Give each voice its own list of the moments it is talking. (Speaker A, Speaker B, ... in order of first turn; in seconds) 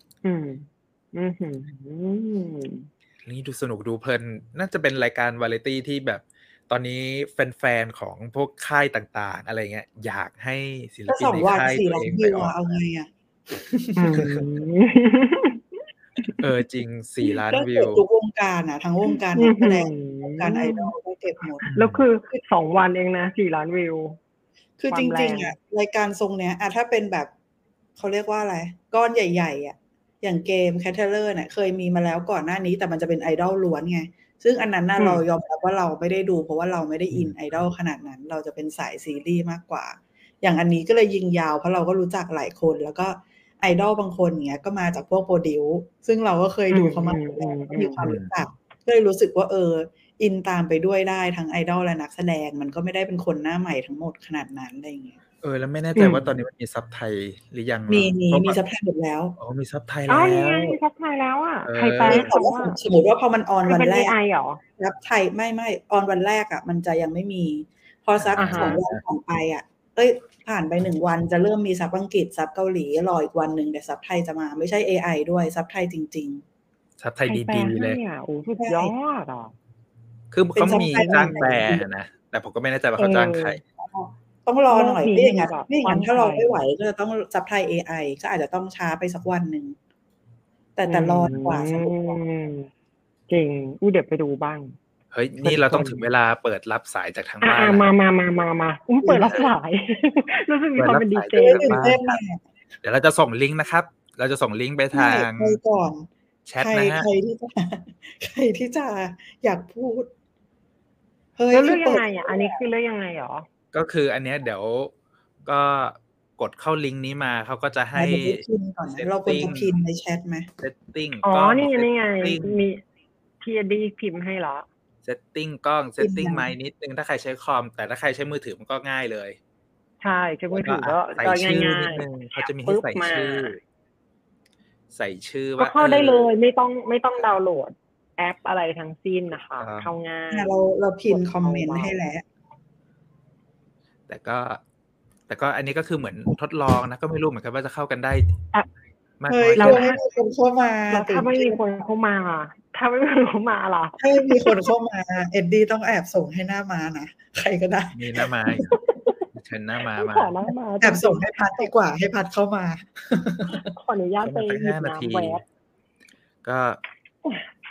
Speaker A: 0.2-2.9, 13.9-15.6, 19.3-20.9, 21.7-24.2, 24.9-25.5, 46.7-48.0, 56.0-56.2, 60.1-62.8, 63.6-64.6, 68.3-68.8, 77.3-79.5, 80.7-81.6, 83.0-83.6, 84.7-86.6, 90.8-92.7, 93.3-94.8, 95.4-96.0, 97.4-101.8, 111.5-113.5, 121.2-122.8, 123.4-124.7, 130.0-133.5, 135.6-140.5, 141.1-142.0, 149.6-150.0, 150.9-154.7, 158.7-159.2, 159.9-161.7, 163.5-165.4
Speaker B: 3.2-12.6, 14.1-14.5, 16.4-18.0, 21.6-22.0, 48.0-48.3, 55.4-58.6, 59.4-60.8, 61.6-62.3, 68.2-69.0, 77.0-78.0, 80.3-83.6, 95.1-97.8, 99.2-99.5, 100.8-102.2, 102.8-105.6, 106.5-107.1, 113.7-114.9, 115.5-119.7, 120.6-122.6, 125.0-129.4, 130.5-133.6, 134.9-136.3, 139.6-139.9, 144.1-144.6, 145.3-148.3, 149.2-149.9, 157.9-158.7, 159.3-160.3, 164.2-165.4, 166.4-166.8
Speaker C: 11.1-14.2, 17.3-21.7, 24.8-27.3, 28.0-55.2, 57.9-59.4, 62.0-64.2, 64.8-76.4, 78.6-78.9, 80.5-81.8, 83.8-89.8, 90.8-92.2, 99.0-99.3, 101.4-102.4, 104.9-106.1, 106.6-110.1, 111.4-112.6, 117.9-120.5, 126.0-126.5, 140.3-142.2, 149.3-151.6, 154.0-158.2, 160.8-163.7